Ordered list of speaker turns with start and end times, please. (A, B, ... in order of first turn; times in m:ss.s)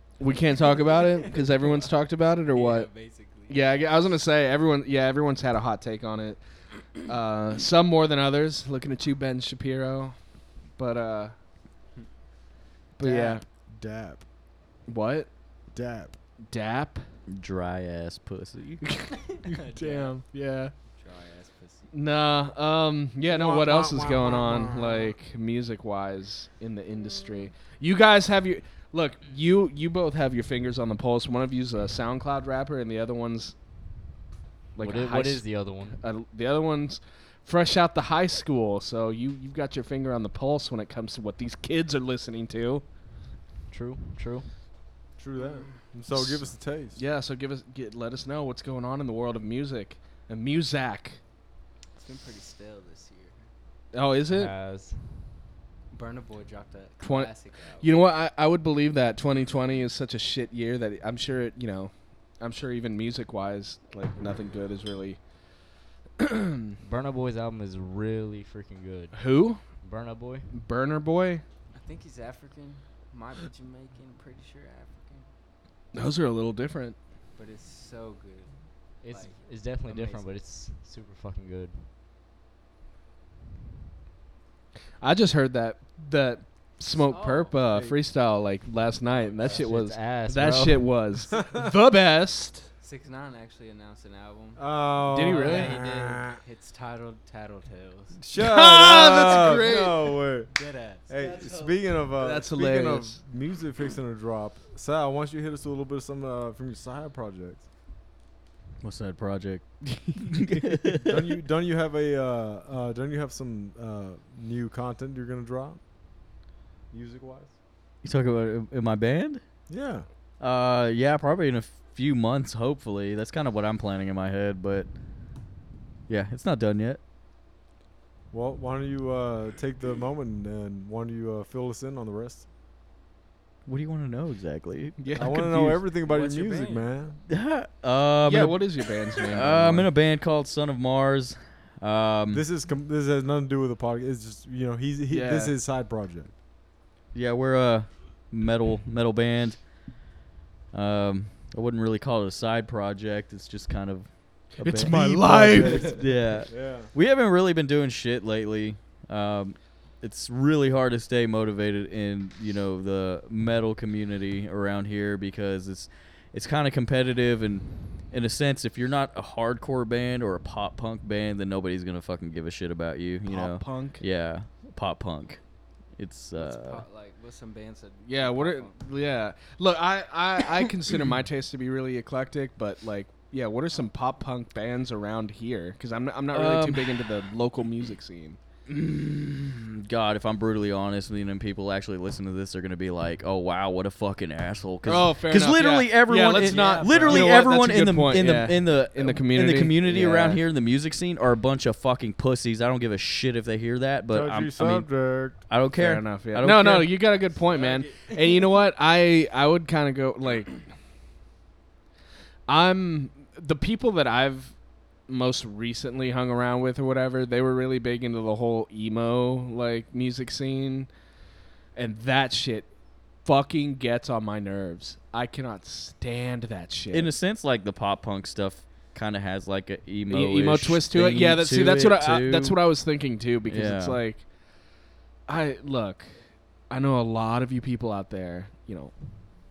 0:00.2-0:02.9 A
0:00.9-0:01.9 B
0:02.5-0:03.9 B
0:03.5-0:06.4 A
0:07.0-0:10.2 A
0:10.8-0:11.3 A
0:13.0-0:13.4 A
0:13.0-0:14.2 C
0:14.9-0:15.3 A
0:15.7-0:16.2 C
0:16.5-0:17.0 A
0:17.3-0:18.8 D
0:18.8-0:20.7 A
0:19.1-0:20.1 B
0:20.9-0:21.9 B
0:21.9-0:33.5 A
0:23.3-0:25.2 C
0:34.8-0:42.8 A
0:34.8-0:36.0 E
0:43.7-0:44.5 E
0:45.2-0:47.0 C
0:46.1-0:51.2 A
0:51.9-0:53.5 B
0:53.9-0:54.5 A
0:54.3-0:55.3 E
0:55.9-0:57.9 B
0:57.0-1:05.2 A
1:06.2-1:06.7 A
1:06.8-1:09.2 E
1:09.1-1:09.6 A
1:09.8-1:10.5 E
1:10.5-1:11.4 A
1:11.7-1:15.3 B
1:15.9-1:17.0 A
1:17.3-1:18.5 B
1:19.0-1:21.9 E
1:19.0-1:20.3 B
1:25.0-1:32.7 A
1:26.9-1:27.6 B
1:29.1-1:29.7 B
1:29.4-1:30.9 E
1:31.4-1:31.6 C
1:32.8-1:38.2 B
1:34.6-1:36.4 C
1:35.1-1:35.7 A
1:35.4-1:35.8 E
1:38.2-1:40.5 C
1:38.3-1:40.0 A
1:40.5-1:42.0 B
1:41.1-1:47.6 C
1:42.2-1:43.2 A
1:48.8-1:51.1 D
1:51.0-1:55.8 C
1:56.9-1:57.5 C
1:58.0-1:59.4 D
1:59.7-2:00.0 C
2:00.4-2:04.9 D
2:06.1-2:07.0 D
2:08.3-2:12.4 C
2:13.6-2:15.0 D
2:15.0-2:15.8 A
2:15.1-2:17.2 C
2:16.0-2:16.8 B
2:17.3-2:18.6 D
2:18.3-2:19.9 A
2:19.2-2:22.4 D
2:22.3-2:26.3 C
2:25.1-2:25.5 A
2:27.1-2:29.6 D
2:30.7-2:55.4 D
2:34.6-2:36.0 A
2:35.4-2:36.9 C
2:53.2-2:54.0 A
2:56.0-2:56.8 D
2:56.4-2:58.8 B
2:58.1-3:08.4 A
3:06.3-3:07.0 D
3:08.7-3:26.9 D
3:14.8-3:20.4 A
3:16.4-3:17.4 B
3:24.1-3:25.4 C
3:25.7-3:30.6 A
3:27.3-3:28.4 B
3:32.5-3:34.6 A
3:35.1-3:40.9 A
3:41.7-3:42.7 A
3:43.2-3:47.1 A
3:46.9-3:52.6 D
3:50.1-3:54.2 A
3:53.5-3:54.0 D
3:55.3-3:56.1 A
3:56.7-3:58.9 A